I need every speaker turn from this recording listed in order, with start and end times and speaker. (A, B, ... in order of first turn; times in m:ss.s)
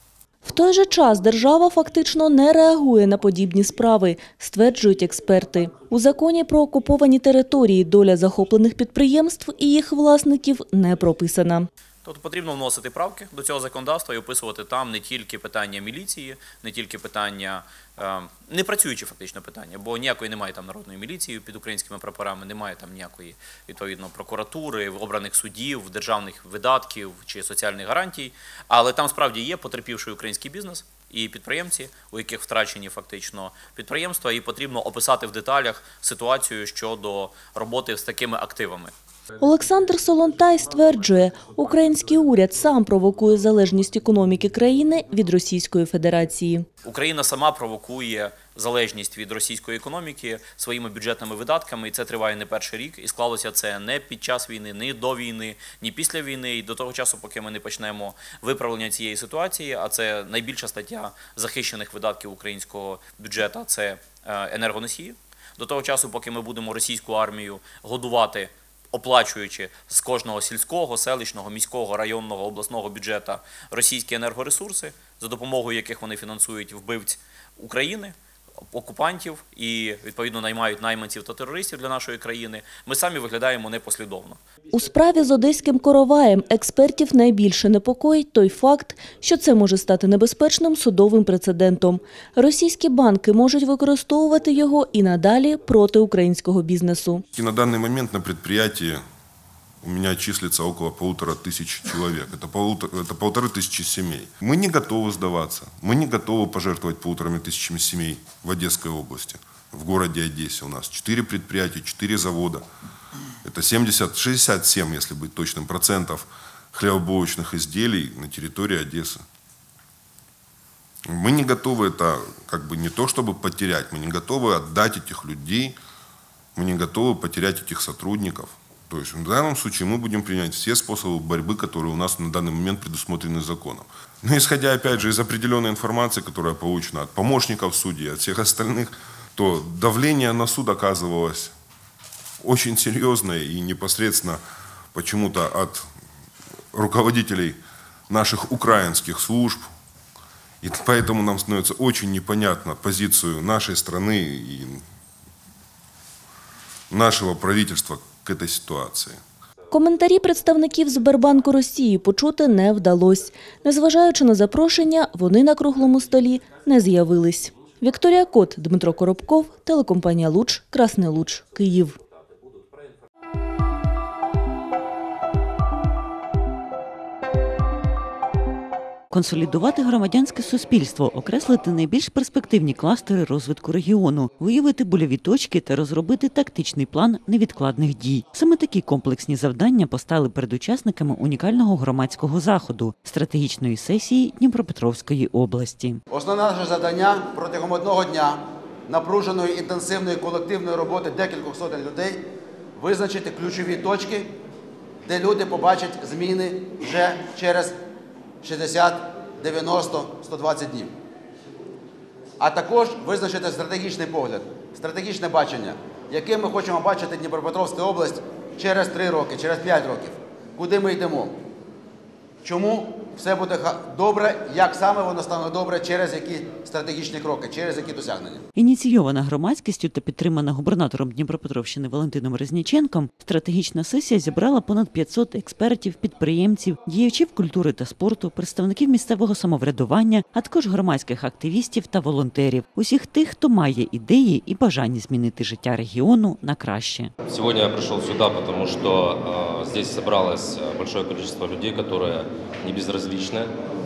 0:00.4-0:11.7 A
0:12.0-0:38.9 B
0:39.4-0:46.6 A
0:46.8-1:18.1 B
1:18.7-1:24.4 B
1:24.7-1:37.2 A
1:37.3-1:39.0 C
1:39.8-1:52.6 C
1:53.4-1:59.2 C
2:01.1-2:05.8 C
2:06.6-2:21.5 C
2:22.4-2:24.4 C
2:24.9-2:25.9 C
2:26.7-2:27.6 C
2:28.1-2:29.7 C
2:30.6-2:34.8 C
2:36.9-2:39.2 C
2:39.7-2:52.0 A
2:59.1-3:16.0 D
3:16.1-3:22.2 E
3:22.8-3:24.3 E
3:25.0-3:27.8 E
3:28.4-3:30.9 E
3:32.4-3:41.4 E
3:42.4-3:48.4 E
3:48.5-4:07.1 D
4:07.3-4:13.5 F